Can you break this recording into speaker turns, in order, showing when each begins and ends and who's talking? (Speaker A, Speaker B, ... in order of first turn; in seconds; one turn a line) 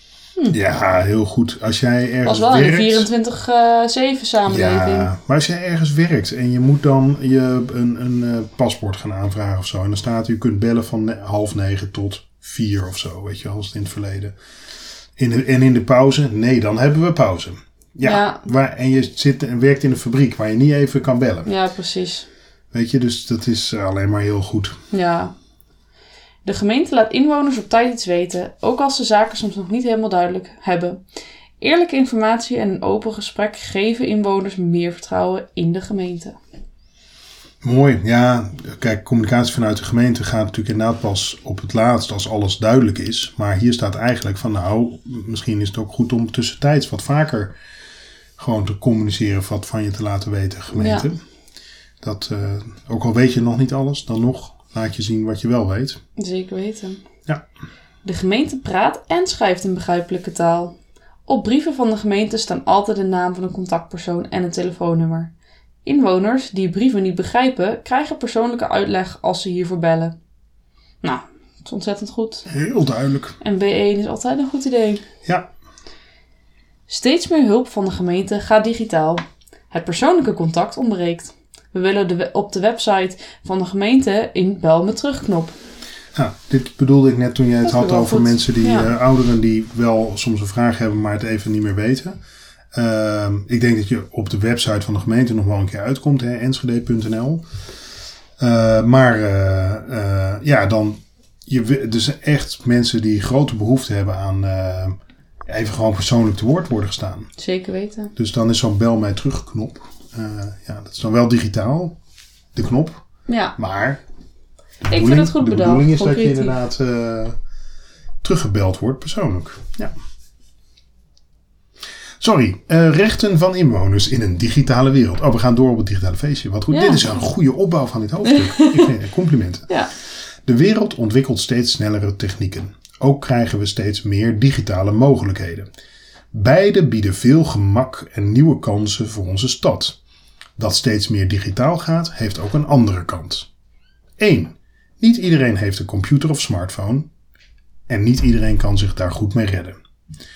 Speaker A: 0.5-3.1
Speaker B: 2.2-5.1
Speaker A: 4.5-14.3
Speaker A: 15.2-21.5
Speaker B: 18.0-18.4
Speaker B: 21.4-22.2
Speaker A: 22.7-24.8
Speaker B: 24.9-25.3
Speaker B: 26.4-31.0
Speaker B: 31.6-36.4
Speaker A: 37.6-47.5
Speaker A: 48.4-51.2
Speaker B: 50.7-51.1
Speaker A: 52.0-56.0
Speaker B: 56.2-57.0
Speaker B: 58.0-60.7
Speaker B: 61.2-65.3
Speaker B: 65.8-70.2
Speaker B: 71.0-72.5
Speaker A: 72.5-73.3
Speaker B: 73.4-75.0
Speaker B: 76.9-85.5
Speaker A: 86.1-92.2
Speaker B: 87.6-88.9
Speaker A: 92.7-97.4
Speaker A: 98.4-107.3
Speaker B: 107.4-108.1
Speaker A: 108.2-112.0
Speaker A: 112.5-113.0
Speaker B: 113.3-113.5
Speaker A: 113.6-114.0
Speaker A: 114.8-117.4
Speaker B: 114.9-116.6
Speaker A: 118.2-119.9
Speaker A: 122.2-135.7
Speaker B: 126.7-127.1
Speaker B: 128.2-128.9
Speaker A: 136.3-140.0
Speaker A: 140.6-143.5
Speaker A: 144.2-147.1
Speaker A: 147.9-149.8